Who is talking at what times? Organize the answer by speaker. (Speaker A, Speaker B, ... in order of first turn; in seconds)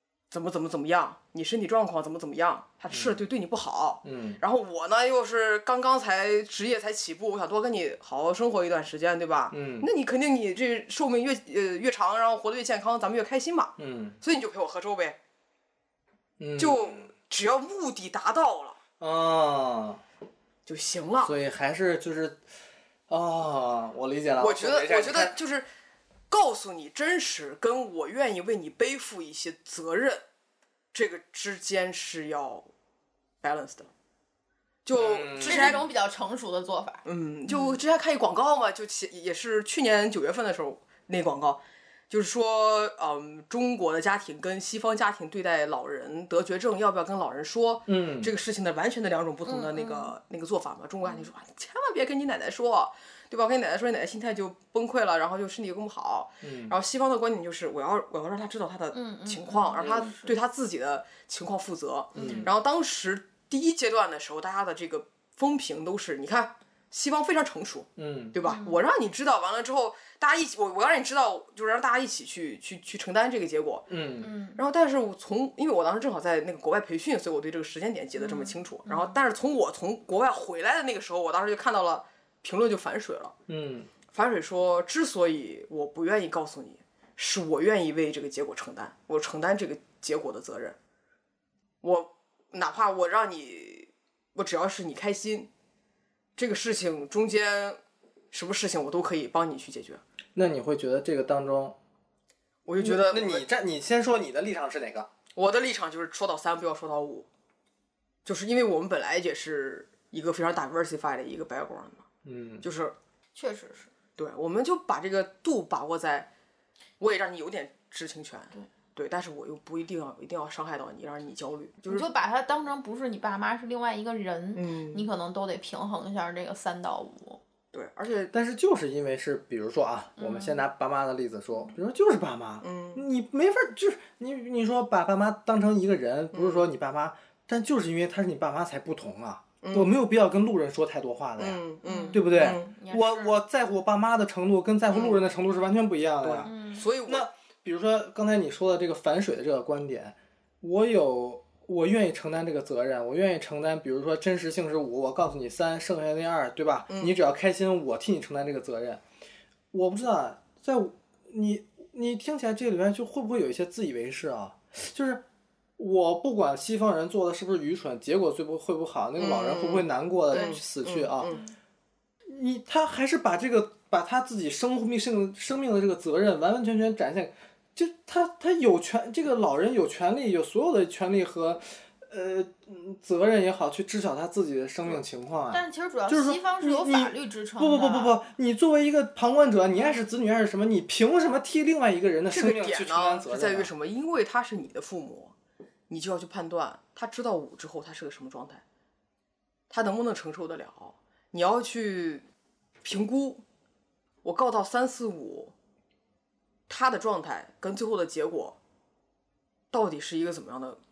Speaker A: 0.3-15.2, 16.6-18.8, 20.7-21.3, 24.4-25.7, 26.3-30.2, 30.9-32.7, 33.4-33.9, 34.9-35.8, 37.0-73.9, 74.5-83.3, 84.1-90.8, 91.8-95.5, 96.4-97.8, 98.3-100.0, 102.7-103.5, 105.3-107.3, 108.2-112.1, 112.6-112.9, 114.2-116.3, 117.0-122.1, 124.5-125.1, 127.7-128.3, 132.6-133.0, 136.3-136.7, 139.6-139.9, 141.4-142.7, 144.9-145.2, 146.2-147.3, 156.9-157.2, 169.2-171.4, 192.3-195.3, 195.9-198.6, 199.7-202.2, 202.8-203.4, 204.2-205.5, 206.7-208.6, 209.7-210.8
Speaker B: 2.9-3.2, 4.0-4.4, 9.5-9.9, 13.8-14.2, 16.4-17.1, 19.0-20.0, 21.2-22.4, 23.1-25.3, 34.9-35.8, 47.9-48.3, 56.4-56.8, 59.8-60.1, 62.1-62.5, 68.0-68.4, 73.9-74.3, 83.5-83.9, 100.3-101.8, 102.8-105.1, 112.2-112.7, 128.3-146.5, 147.1-159.0, 159.7-165.2, 165.8-171.3, 172.3-193.7
Speaker C: 35.4-37.0, 49.5-50.1, 51.0-51.3, 58.9-60.4, 62.1-62.5, 68.4-68.8, 74.2-74.6, 78.2-79.2, 113.3-113.9, 121.9-127.4, 130.2-130.6, 141.8-143.3, 146.4-146.9, 170.3-170.6, 171.2-171.6, 185.5-188.2, 189.7-190.0